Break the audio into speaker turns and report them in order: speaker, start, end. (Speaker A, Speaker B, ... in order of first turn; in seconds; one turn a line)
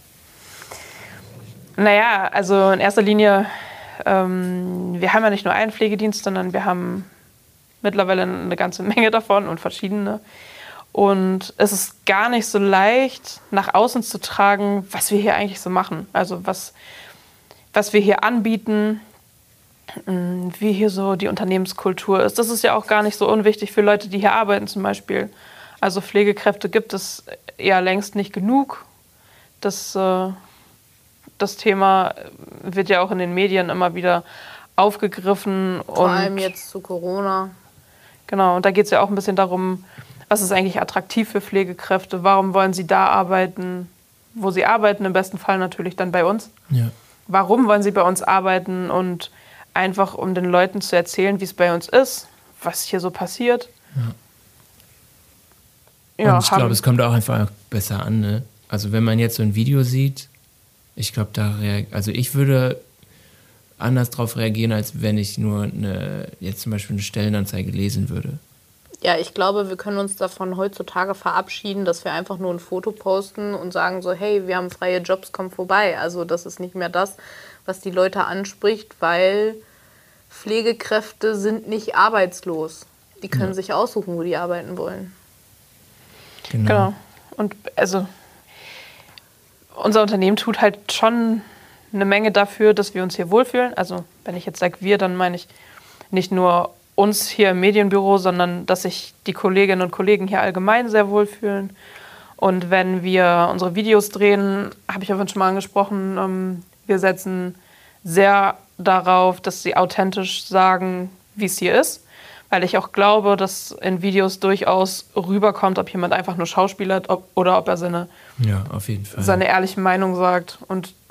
Speaker A: 1.8-7.1
Speaker A: 7.8-10.2
Speaker A: 10.9-16.7
Speaker A: 17.7-19.0
Speaker A: 20.0-28.8
Speaker A: 29.6-30.4
Speaker A: 31.4-34.2
Speaker A: 34.8-36.5
Speaker B: 35.9-37.5
Speaker A: 38.3-46.5
Speaker A: 47.3-53.7
Speaker A: 56.2-56.8
Speaker C: 56.2-60.3
Speaker C: 61.0-62.8
Speaker C: 63.8-68.4
Speaker B: 69.0-79.6
Speaker B: 80.3-85.1
Speaker C: 86.5-86.9
Speaker A: 86.6-88.1
Speaker A: 89.7-95.5
Speaker A: 96.1-101.7
Speaker A: 102.4-118.1
Speaker C: 118.4-119.4
Speaker A: 119.1-121.0